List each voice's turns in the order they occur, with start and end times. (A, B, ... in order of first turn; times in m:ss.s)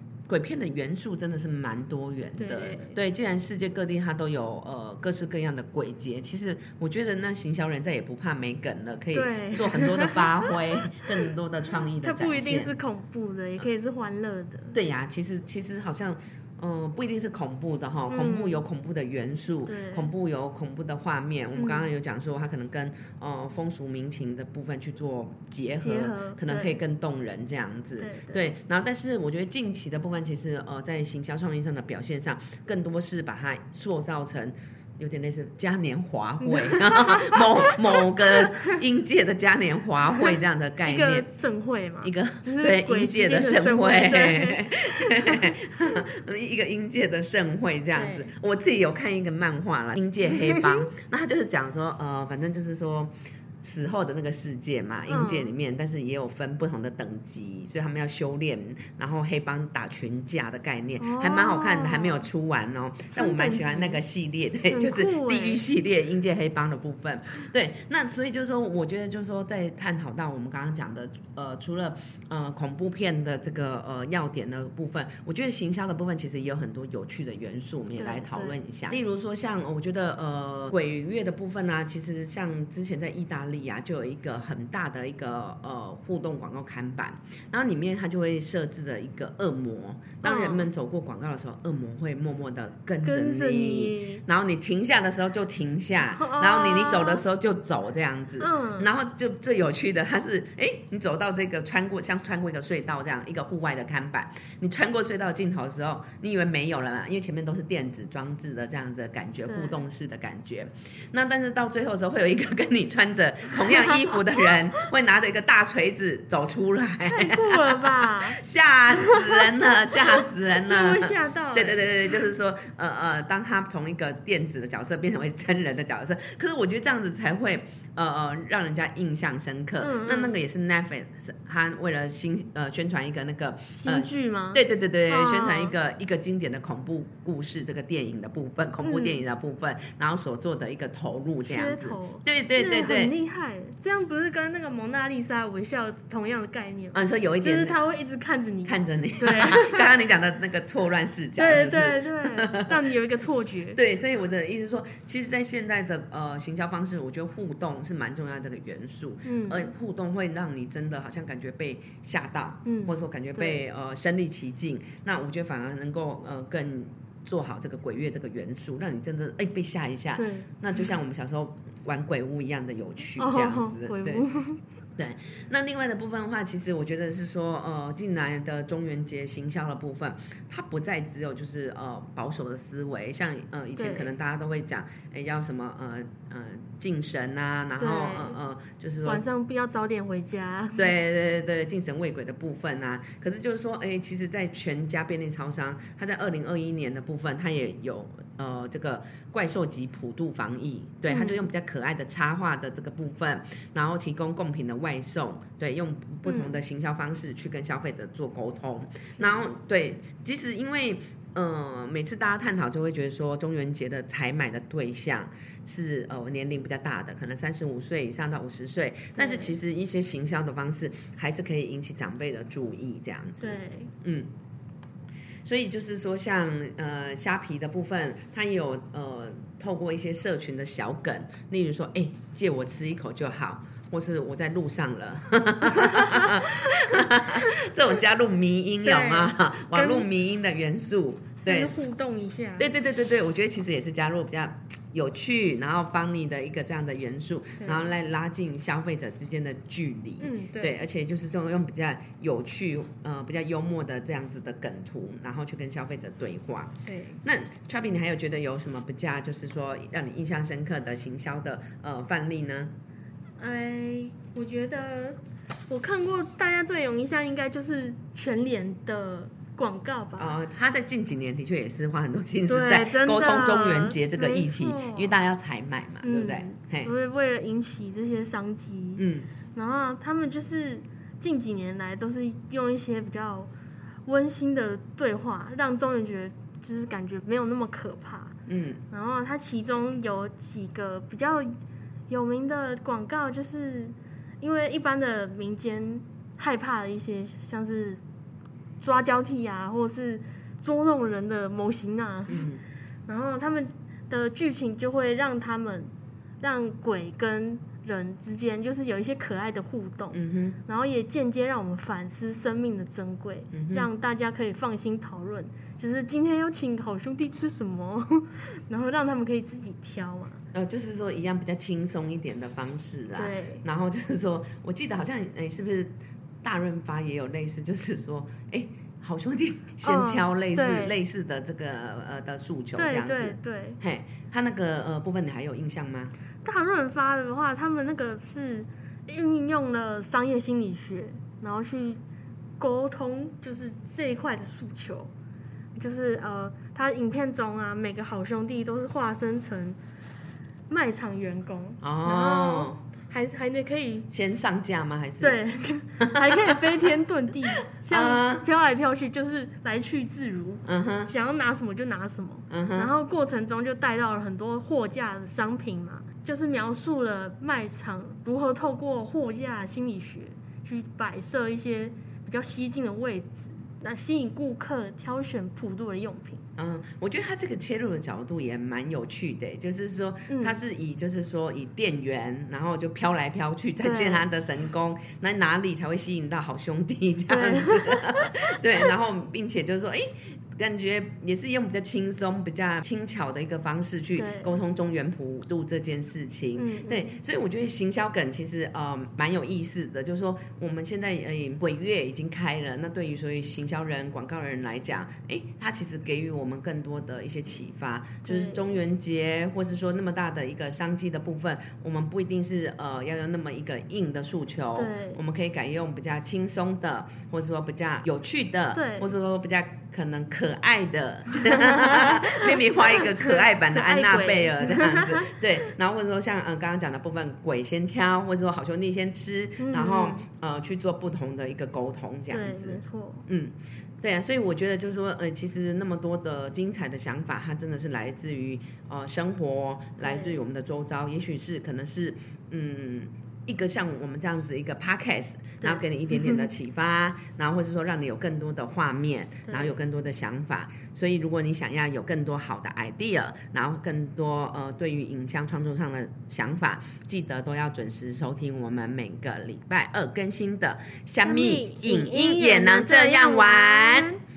0:00.3-0:12.7 A
0:02.4-0:03.0 B
0:09.1-0:11.0 B
0:12.0-0:14.8 B
0:14.7-0:41.3 A
0:18.1-0:18.6 B
0:19.7-0:20.1 B
0:21.6-0:21.9 B
0:25.8-0:26.8 B
0:28.0-0:28.4 B
0:36.4-0:38.8 B
0:40.9-0:45.6 B
0:42.0-2:23.1 A
0:47.9-0:48.3 B
0:50.3-0:50.9 B
0:55.1-0:55.5 B
1:01.0-1:02.3 B
1:03.2-1:04.0 B
1:04.7-1:05.6 B
1:18.0-1:18.6 B
1:30.2-1:30.7 B
1:33.0-1:34.2 B
1:36.1-1:37.2 B
1:38.4-1:38.9 B
1:49.5-1:49.8 B
1:53.7-1:54.5 B
1:57.1-2:02.1 B
2:09.8-2:10.4 B
2:13.7-2:15.8 B
2:18.8-2:19.2 B
2:21.4-2:29.9 B
2:26.9-2:27.8 A
2:28.7-2:32.8 A
2:31.4-2:33.8 B
2:33.8-2:54.2 A
2:39.2-2:39.7 B
2:42.6-2:43.6 B
2:50.2-2:50.5 B
2:53.2-2:54.6 B
2:55.0-3:09.2 A
3:03.8-3:04.1 B
3:07.8-3:08.4 B
3:09.0-3:10.9 B
3:10.8-3:44.3 A
3:21.1-3:21.5 B
3:26.2-3:26.6 B
3:39.2-3:39.6 B
3:43.4-3:43.9 B
3:45.4-4:01.7 A
3:55.7-3:57.7 B
3:58.8-4:00.1 B
4:01.4-4:02.7 B
4:02.6-4:22.7 A
4:07.6-4:07.9 B
4:10.2-4:10.8 B
4:16.9-4:17.2 B
4:23.4-4:30.4 B
4:30.2-4:36.9 A
4:32.5-4:35.2 B
4:36.0-4:39.0 B
4:39.0-4:39.3 A
4:39.6-4:43.5 B
4:44.1-4:48.4 B
4:48.5-4:48.8 A
4:48.9-4:51.5 B
4:52.1-4:58.0 B
4:58.8-5:02.5 B
5:02.3-5:02.6 A
5:03.1-5:20.4 B
5:10.1-5:10.6 A
5:13.5-5:13.9 A
5:20.5-5:36.1 A
5:23.2-5:23.6 B
5:29.8-5:30.9 B
5:32.8-5:33.8 B
5:36.4-5:42.0 B
5:42.6-5:45.1 B
5:45.8-5:49.8 B
5:50.7-5:54.1 B
5:51.8-5:52.8 A
5:54.1-5:55.4 A
5:55.2-6:16.4 B
5:56.0-5:56.9 A
5:57.7-5:58.5 A
6:00.6-6:01.1 A
6:02.5-6:02.9 A
6:16.6-7:44.1 A
6:20.3-6:20.6 B
6:23.8-6:24.3 B
6:27.3-6:28.8 B
6:34.2-6:34.5 B
6:36.6-6:37.2 B
6:48.2-6:48.7 B
6:54.8-6:55.2 B
6:58.7-6:59.1 B
7:01.4-7:05.4 B
7:09.6-7:10.2 B
7:12.3-7:13.3 B
7:20.0-7:20.4 B
7:25.6-7:26.5 B
7:29.5-7:29.7 B
7:41.2-7:44.2 B